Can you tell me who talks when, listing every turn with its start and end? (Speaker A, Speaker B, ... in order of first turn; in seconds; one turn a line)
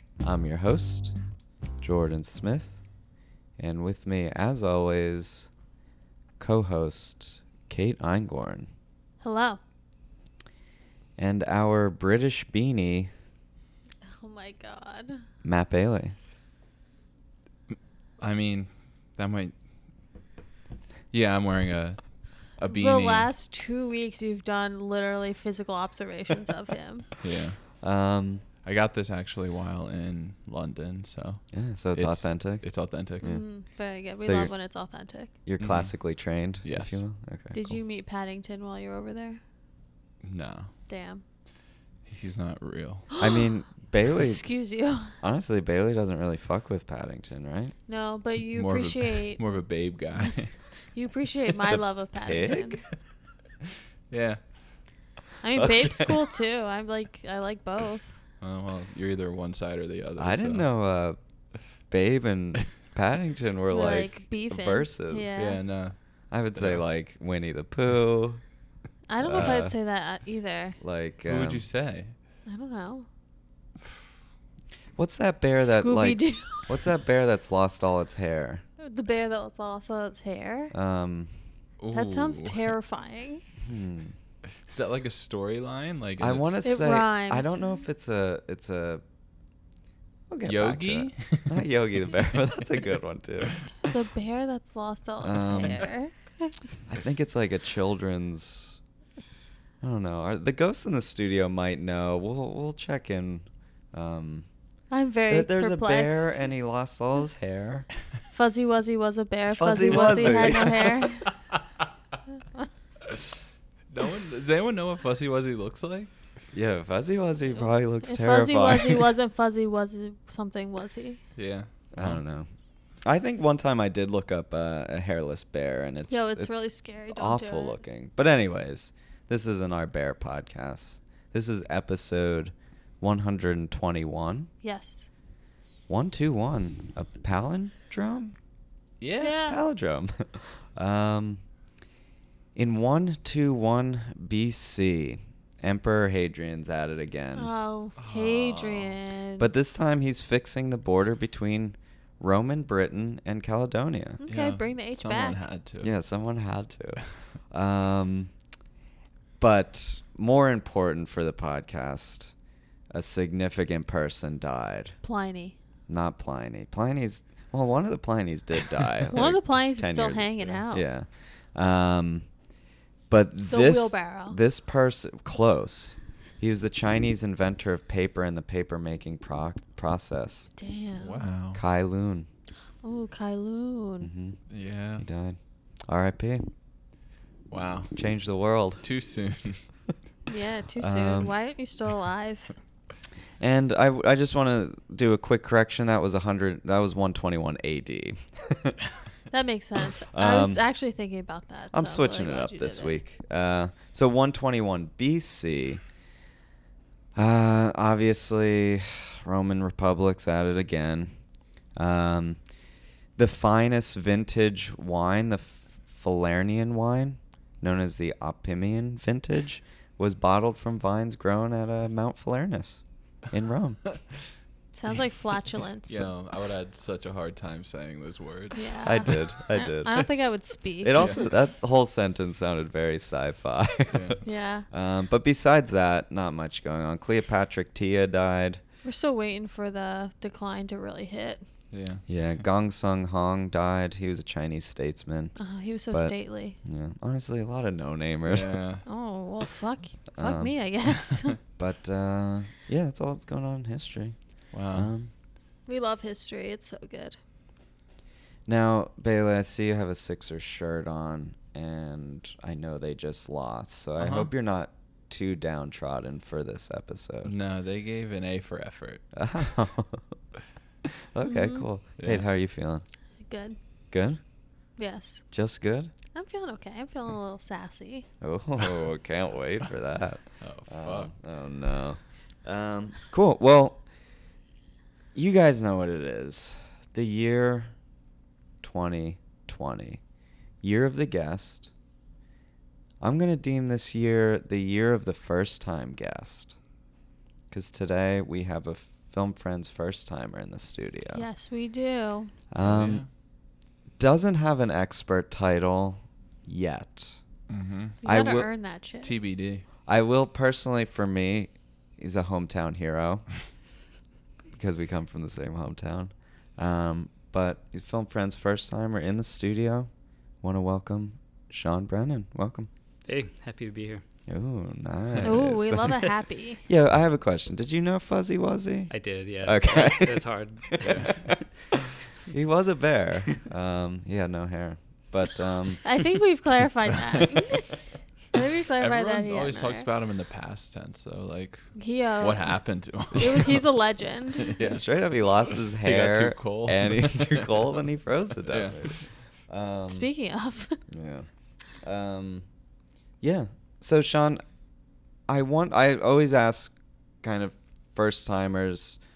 Speaker A: 0.2-1.1
Speaker A: 1.8-2.8
Speaker A: 3.6-5.5
Speaker A: 6.4-8.7
Speaker B: 9.2-9.6
Speaker A: 11.2-13.1
Speaker B: 14.1-15.2
Speaker A: 15.4-16.1
Speaker C: 17.7-19.5
Speaker C: 21.1-23.3
Speaker B: 22.7-27.1
Speaker C: 27.2-27.6
Speaker A: 27.8-28.4
Speaker C: 28.6-33.4
Speaker A: 31.5-32.6
Speaker B: 33.2-35.3
Speaker A: 34.2-34.5
Speaker A: 35.5-37.8
Speaker C: 35.6-35.9
Speaker C: 36.6-37.0
Speaker B: 37.5-39.4
Speaker C: 40.2-40.7
Speaker B: 40.9-41.2
Speaker C: 42.1-43.1
Speaker B: 43.1-43.5
Speaker A: 43.2-44.4
Speaker B: 44.1-45.1
Speaker A: 45.2-47.7
Speaker B: 47.9-49.4
Speaker C: 48.5-50.6
Speaker B: 50.9-52.8
Speaker A: 52.2-52.9
Speaker C: 54.1-54.4
Speaker B: 55.4-58.1
Speaker A: 55.5-56.0
Speaker C: 58.4-60.7
Speaker A: 60.2-61.2
Speaker A: 61.9-65.3
Speaker B: 63.7-65.6
Speaker C: 65.4-66.0
Speaker A: 66.3-68.4
Speaker C: 66.5-66.8
Speaker B: 69.1-70.8
Speaker A: 69.2-69.7
Speaker A: 70.8-71.7
Speaker C: 71.3-72.1
Speaker B: 72.5-73.1
Speaker A: 75.0-78.6
Speaker B: 75.6-76.8
Speaker B: 78.8-80.7
Speaker A: 80.7-81.3
Speaker C: 81.8-82.7
Speaker B: 81.9-83.4
Speaker A: 83.6-84.2
Speaker C: 84.7-86.6
Speaker A: 86.2-89.0
Speaker B: 86.6-87.8
Speaker A: 90.3-93.6
Speaker C: 90.5-91.7
Speaker B: 93.9-96.5
Speaker A: 95.2-95.8
Speaker A: 96.9-98.8
Speaker A: 99.8-104.5
Speaker B: 104.9-106.5
Speaker A: 105.3-107.9
Speaker B: 108.3-111.3
Speaker A: 109.5-111.0
Speaker C: 113.9-116.1
Speaker A: 116.5-119.1
Speaker B: 118.1-121.2
Speaker C: 121.4-122.2
Speaker A: 121.9-122.5
Speaker A: 123.0-134.5
Speaker B: 126.1-127.8
Speaker B: 134.6-135.1
Speaker A: 135.9-138.3
Speaker C: 139.0-139.4
Speaker B: 139.2-139.6
Speaker A: 139.4-141.4
Speaker A: 142.6-147.5
Speaker B: 147.4-149.5
Speaker C: 148.0-149.0
Speaker A: 149.4-154.2
Speaker B: 154.2-155.4
Speaker C: 154.3-155.9
Speaker A: 155.8-158.3
Speaker A: 159.4-162.3
Speaker A: 162.9-165.0
Speaker B: 165.0-165.6
Speaker A: 165.9-172.3
Speaker B: 169.1-170.9
Speaker A: 173.1-180.5
Speaker B: 173.5-174.4
Speaker B: 180.6-181.2
Speaker C: 181.0-181.6
Speaker A: 181.5-182.3
Speaker B: 182.8-184.1
Speaker A: 184.0-184.4
Speaker C: 184.5-185.1
Speaker A: 185.0-186.5
Speaker C: 187.5-188.0
Speaker A: 187.9-188.8
Speaker C: 188.8-189.6
Speaker B: 190.3-192.5
Speaker A: 190.8-191.3
Speaker A: 193.4-198.8
Speaker B: 199.3-203.0
Speaker A: 200.1-200.6
Speaker A: 201.7-205.8
Speaker A: 207.2-211.1
Speaker A: 211.8-212.4
Speaker A: 213.2-223.8
Speaker B: 224.7-226.1
Speaker C: 225.9-229.1
Speaker B: 228.6-231.2
Speaker A: 228.8-230.1
Speaker A: 230.8-238.6
Speaker C: 230.9-231.2
Speaker C: 233.9-234.2
Speaker B: 234.2-234.7
Speaker B: 238.8-241.4
Speaker C: 241.7-242.1
Speaker A: 242.1-245.3
Speaker B: 245.4-246.6
Speaker A: 245.9-248.6
Speaker C: 248.3-248.8
Speaker B: 248.8-251.4
Speaker A: 250.2-254.2
Speaker C: 254.5-254.9
Speaker A: 254.7-255.1
Speaker B: 255.7-257.2
Speaker A: 258.5-267.3
Speaker C: 264.0-264.3
Speaker C: 267.2-269.0
Speaker A: 269.1-270.0
Speaker A: 270.9-272.8
Speaker B: 271.2-271.6
Speaker C: 272.0-272.2
Speaker B: 273.3-273.6
Speaker A: 273.9-274.2
Speaker B: 274.8-275.2
Speaker A: 275.3-275.9
Speaker B: 276.1-278.1
Speaker A: 278.2-283.8
Speaker C: 280.4-281.1
Speaker A: 285.1-287.7
Speaker A: 288.6-290.0
Speaker A: 290.6-291.7
Speaker A: 293.0-296.6
Speaker A: 297.5-301.3
Speaker B: 301.1-302.3
Speaker A: 302.5-303.0
Speaker C: 302.6-303.1
Speaker A: 304.0-307.2
Speaker C: 307.5-308.0
Speaker A: 308.0-308.5
Speaker B: 308.0-309.1
Speaker C: 309.0-309.6
Speaker A: 309.9-313.3
Speaker A: 314.5-319.9
Speaker A: 320.4-322.7
Speaker D: 323.1-324.0
Speaker A: 324.3-325.9
Speaker C: 325.1-325.5
Speaker B: 325.2-326.6
Speaker A: 326.7-335.8
Speaker D: 328.9-331.2
Speaker C: 330.8-331.1
Speaker B: 335.8-337.8
Speaker B: 338.3-339.9
Speaker C: 338.8-343.6
Speaker B: 341.8-342.6
Speaker B: 343.1-344.6
Speaker A: 343.1-343.4
Speaker C: 344.5-344.8
Speaker A: 344.6-350.1
Speaker C: 345.8-347.7
Speaker C: 348.5-348.9
Speaker B: 349.9-350.8
Speaker A: 350.9-351.3
Speaker A: 351.8-352.4
Speaker A: 353.2-354.4
Speaker A: 355.3-359.0